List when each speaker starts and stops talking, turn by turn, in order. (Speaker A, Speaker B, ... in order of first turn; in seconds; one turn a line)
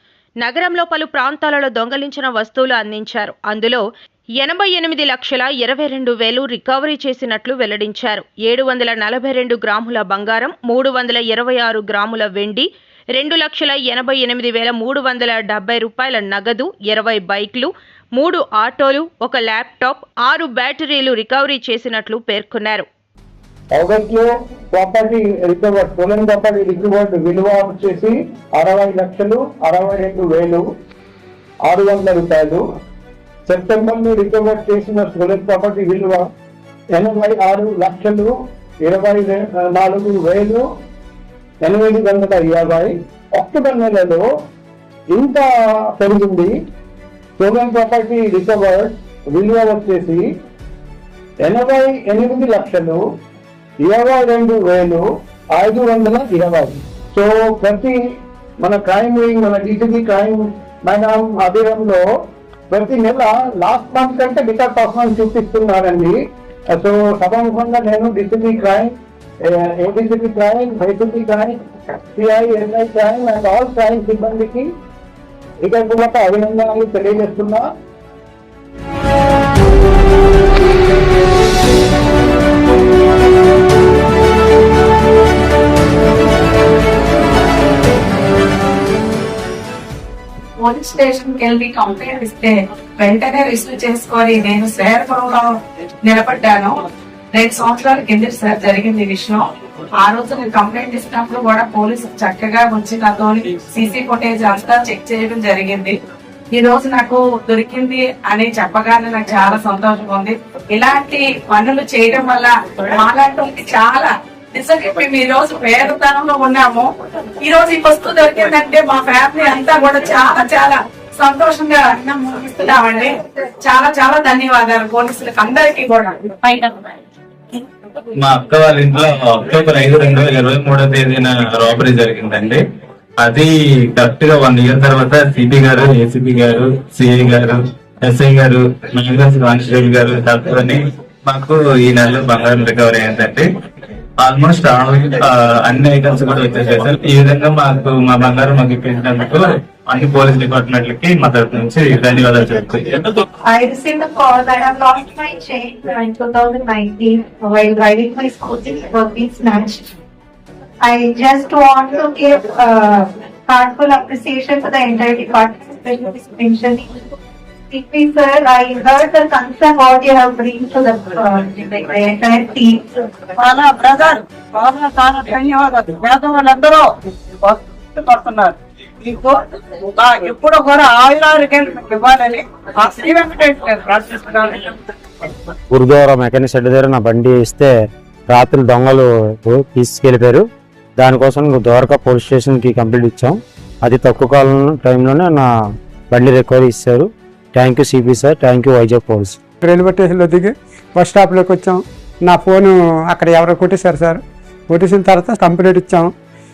Speaker A: 0.4-3.9
Speaker A: 4.4-22.9
Speaker B: 23.8-30.6
Speaker B: 31.7-32.6
Speaker B: 33.5-36.2
Speaker B: 37.0-38.3
Speaker B: 38.9-40.6
Speaker B: 41.6-44.2
Speaker B: 45.1-46.5
Speaker B: 47.4-50.2
Speaker B: 51.5-53.0
Speaker B: 53.8-58.0
Speaker B: 58.6-62.0
Speaker B: 62.7-66.2
Speaker B: 66.8-68.9
Speaker B: 69.6-71.5
Speaker B: 72.2-74.7
Speaker B: 75.7-77.7
Speaker C: 90.6-95.5
Speaker C: 96.1-96.8
Speaker C: 97.3-99.5
Speaker C: 100.0-106.0
Speaker C: 106.5-116.9
Speaker C: 117.4-126.7
Speaker D: 128.2-132.6
Speaker D: 133.2-143.5
Speaker D: 144.2-153.2
Speaker E: 153.5-159.8
Speaker E: 160.8-166.9
Speaker E: 167.7-173.0
Speaker F: 173.4-179.4
Speaker F: 179.9-184.8
Speaker G: 185.7-187.8
Speaker G: 188.3-190.5
Speaker G: 191.0-195.5
Speaker G: 196.1-199.4
Speaker H: 199.6-206.1